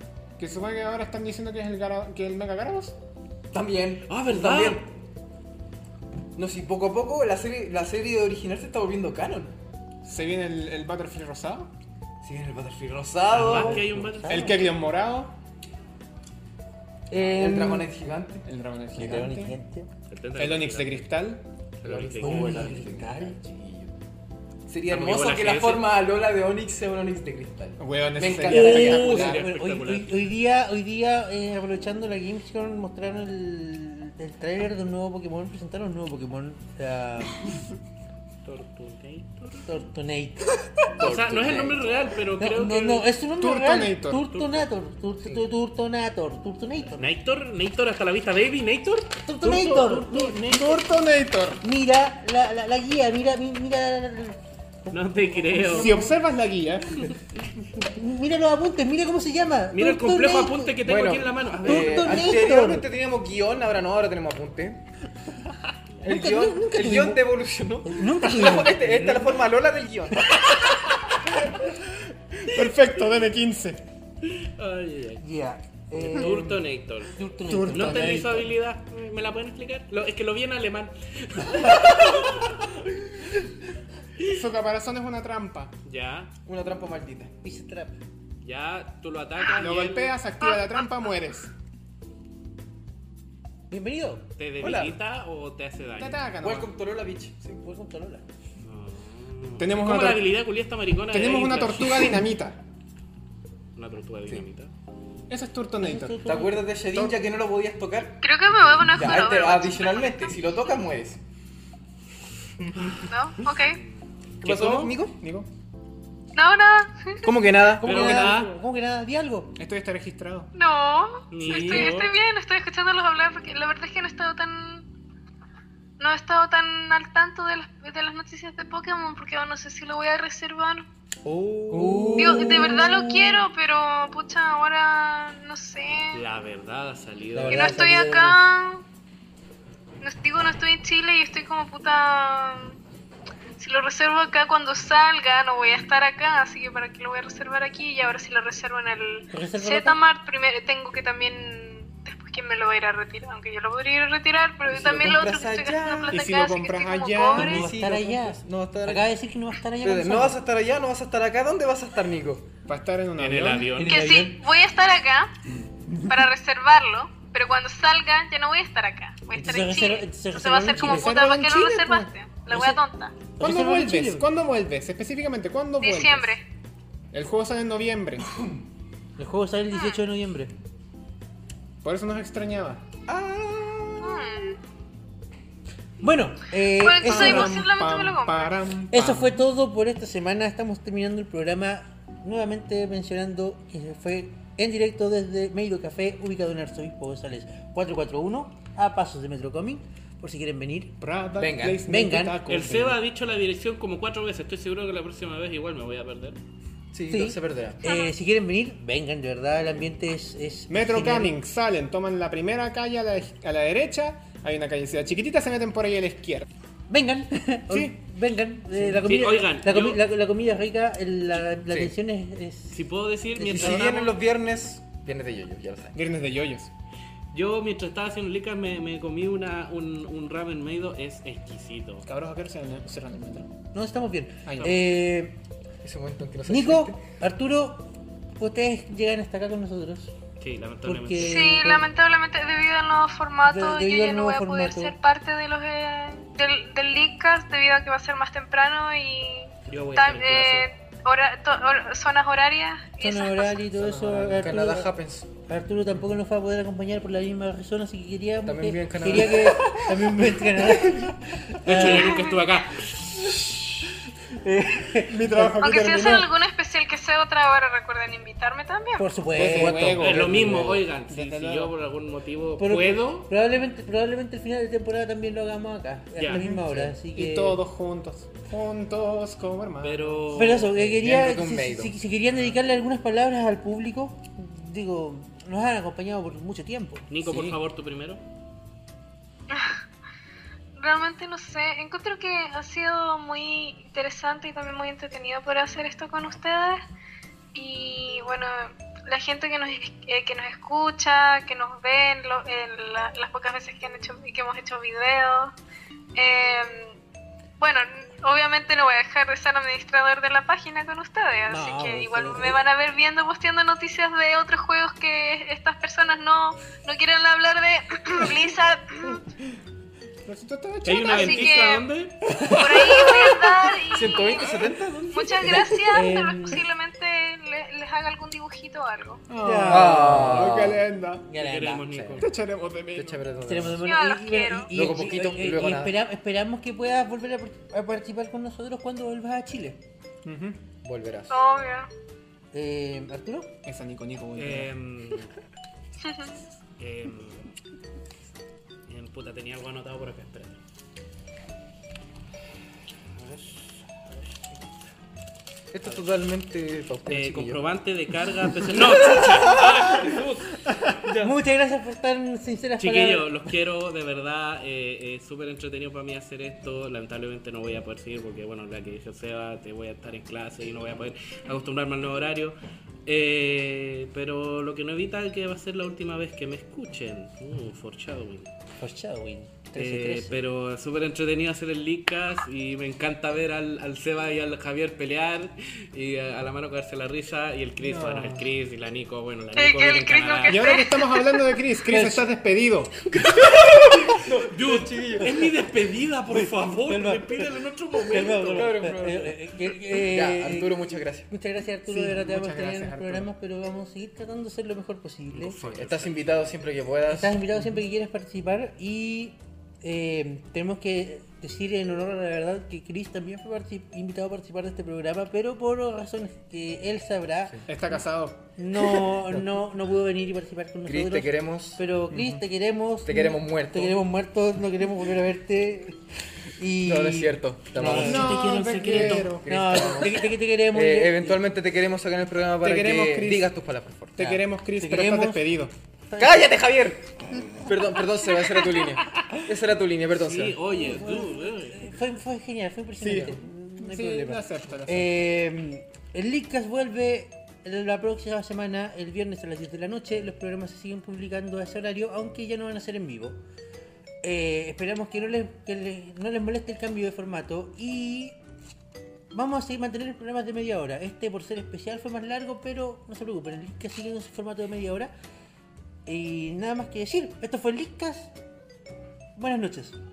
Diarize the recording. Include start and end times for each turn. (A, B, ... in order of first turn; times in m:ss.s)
0:00.4-0:03.0 A
0:03.5-0:04.9 B
0:04.1-0:04.8 C
0:06.4-0:09.5 B
0:10.0-0:11.7 A
0:12.2-0:14.0 B
0:13.3-0:14.7 C
0:13.3-0:14.7 D
0:14.3-0:15.3 A
0:17.1-0:17.9 D
0:17.3-0:18.4 B
0:18.4-0:19.6 A
0:18.9-0:19.9 D
0:20.1-0:21.1 C
0:20.4-0:21.4 A
0:21.8-0:22.8 C
0:21.8-0:23.9 B
0:22.2-0:23.4 D
0:24.7-0:29.4 B
0:24.9-0:25.9 C
0:27.8-0:29.4 A
0:28.4-0:30.3 C
0:28.4-0:37.4 D
0:38.4-0:39.7 C
0:39.6-0:41.8 D
0:41.0-0:43.0 C
0:41.0-0:41.8 B
0:42.4-0:47.1 D
0:43.4-0:44.2 A
0:44.3-0:44.6 C
0:47.0-0:50.5 C
0:49.2-0:50.8 D
0:50.3-0:51.6 A
0:51.6-0:56.1 D
0:54.9-0:56.0 C
0:55.7-0:57.1 A
0:57.8-1:00.7 D
0:59.7-1:02.4 C
1:00.8-1:04.8 B
1:01.6-1:02.9 D
1:06.0-1:10.3 B
1:06.0-1:07.2 D
1:07.8-1:09.4 D
1:10.4-1:11.7 A
1:12.4-1:13.8 A
1:14.2-1:15.2 C
1:15.2-1:16.6 D
1:16.0-1:17.2 C
1:16.1-1:16.4 B
1:17.1-1:18.5 D
1:17.5-1:18.4 A
1:17.7-1:22.8 C
1:24.3-1:25.7 A
1:25.8-1:26.3 C
1:26.4-1:27.3 B
1:27.4-1:28.0 D
1:28.4-1:30.1 C
1:29.6-1:31.5 A
1:33.7-1:34.2 D
1:34.4-1:36.2 C
1:34.6-1:35.0 B
1:36.0-1:36.7 A
1:36.4-1:37.6 B
1:37.5-1:38.2 D
1:38.6-1:42.2 C
1:39.6-1:40.3 A
1:41.1-1:42.6 A
1:43.8-1:44.7 C
1:45.3-1:46.2 A
1:45.8-1:46.8 D
1:46.2-1:48.2 B
1:46.9-1:47.2 A
1:48.2-1:50.5 E
1:48.5-1:48.9 C
1:48.8-1:51.2 B
1:53.1-1:53.8 E
1:53.7-1:54.9 C
1:54.4-1:55.2 B
1:55.2-1:55.5 A
1:56.3-1:57.3 E
1:57.2-1:58.4 B
1:57.8-1:59.5 D
1:57.8-1:58.5 C
1:59.5-2:00.5 A
2:00.5-2:04.8 E
2:01.3-2:02.1 C
2:01.5-2:02.0 B
2:06.0-2:10.8 E
2:11.2-2:12.7 B
2:11.7-2:12.5 A
2:11.7-2:13.4 D
2:12.2-2:16.2 E
2:16.1-2:17.8 C
2:17.3-2:18.4 D
2:17.5-2:18.8 E
2:20.0-2:22.8 E
2:23.6-2:37.6 E
2:29.3-2:30.0 D
2:34.7-2:36.3 B
2:36.1-2:37.6 A
2:37.3-2:40.4 D
2:37.4-2:39.1 B
2:39.8-2:42.4 B
2:42.6-2:43.8 A
2:43.2-2:44.1 C
2:43.8-2:44.4 D
2:43.8-2:45.3 E
2:46.0-2:53.2 E
2:49.3-2:51.2 D
2:50.8-2:52.1 A
2:52.5-2:52.8 D
2:53.3-2:54.3 D
2:53.4-2:56.4 A
2:55.8-2:56.4 E
2:57.1-2:58.3 A
2:59.2-3:00.5 D
2:59.7-3:00.0 E
3:01.8-3:02.8 A
3:03.1-3:04.4 B
3:04.0-3:04.6 E
3:06.0-3:07.6 D
3:06.7-3:08.5 E
3:07.0-3:09.4 A
3:08.9-3:20.9 D
3:21.0-3:23.0 A
3:21.4-3:21.8 B
3:21.8-3:22.4 D
3:22.5-3:26.4 C
3:26.9-3:27.8 B
3:27.1-3:31.4 D
3:27.8-3:28.1 E
3:30.7-3:36.5 A
3:36.9-3:44.1 D
3:37.7-3:38.0 A
3:39.0-3:40.0 C
3:42.7-3:44.1 C
3:43.5-3:46.0 B
3:45.9-3:46.7 A
3:47.3-3:52.0 C
3:52.0-3:53.5 A
3:53.7-3:55.4 D
3:54.4-3:54.8 A
3:55.8-3:57.0 B
3:56.4-4:00.1 D
4:00.4-4:01.5 C
4:00.8-4:01.9 D
4:01.2-4:13.7 E
4:03.4-4:04.9 D
4:09.7-4:10.7 C
4:13.0-4:22.2 D
4:13.8-4:15.3 B
4:18.4-4:21.1 B
4:21.6-4:23.4 C
4:21.8-4:22.4 E
4:23.2-4:23.7 D
4:24.3-4:25.6 D
4:24.9-4:26.3 A
4:25.6-4:29.2 E
4:29.0-4:30.6 D
4:29.3-4:31.7 A
4:29.4-4:33.3 C
4:32.6-4:37.6 D
4:36.2-4:36.4 C
4:36.3-4:40.2 A
4:39.8-4:40.7 C
4:40.3-4:47.1 D
4:40.7-4:41.9 B
4:47.1-4:48.2 C
4:47.2-4:47.6 B
4:49.5-4:49.8 E
4:50.8-4:56.8 E
4:57.5-5:05.5 E
5:06.1-5:07.0 E
5:07.6-5:19.2 E
5:11.5-5:12.6 D
5:20.2-5:21.6 A
5:20.8-5:22.4 C
5:20.9-5:21.9 E
5:22.4-5:29.2 E
5:23.9-5:25.8 B
5:25.4-5:26.6 D
5:29.3-5:31.3 A
5:29.4-5:30.7 D
5:29.6-5:30.8 B
5:31.3-5:31.9 D
5:31.4-5:32.3 C
5:31.9-5:32.3 B
5:32.2-5:33.2 A
5:32.9-5:33.8 B
5:33.4-5:39.8 D
5:33.8-5:34.7 E
5:34.7-5:36.0 B
5:40.2-5:40.6 A
5:40.8-5:41.4 B
5:41.3-5:41.9 E
5:42.5-5:43.5 D
5:43.6-5:44.7 A
5:44.4-5:45.3 C
5:46.0-5:46.3 E
5:46.8-5:47.5 C
5:48.9-5:50.6 C
5:53.2-5:54.1 C
5:55.7-5:57.6 B
5:55.8-5:56.1 C
5:57.1-6:00.6 C
5:58.6-6:00.2 B
6:01.0-6:01.3 B
6:01.2-6:03.3 D
6:02.8-6:18.5 C
6:18.8-6:20.4 D
6:19.8-6:30.6 C
6:27.8-6:28.5 A
6:29.5-6:31.3 E
6:30.5-6:32.9 A
6:31.9-6:32.3 D
6:33.3-6:35.3 B
6:34.4-6:38.8 C
6:35.2-6:35.5 D
6:36.3-6:45.6 D
6:38.5-6:41.3 B
6:41.8-6:43.3 A
6:45.3-6:46.4 C
6:45.6-6:47.7 B
6:47.1-6:57.7 D
6:57.6-6:58.5 A
6:58.6-7:06.0 D
7:00.9-7:01.8 B
7:02.1-7:02.4 A
7:03.0-7:04.0 B
7:06.6-7:11.4 D
7:06.8-7:08.4 B
7:07.8-7:09.4 C
7:07.9-7:09.4 A
7:08.9-7:14.3 B
7:12.6-7:13.5 A
7:14.1-7:15.7 A
7:14.2-7:15.5 D
7:16.1-7:16.5 D
7:16.2-7:20.6 B
7:20.1-7:21.9 C
7:20.7-7:33.4 D
7:23.0-7:25.1 A
7:34.2-7:38.4 D
7:39.3-7:45.1 D
7:46.0-7:48.3 D
7:49.4-7:50.0 D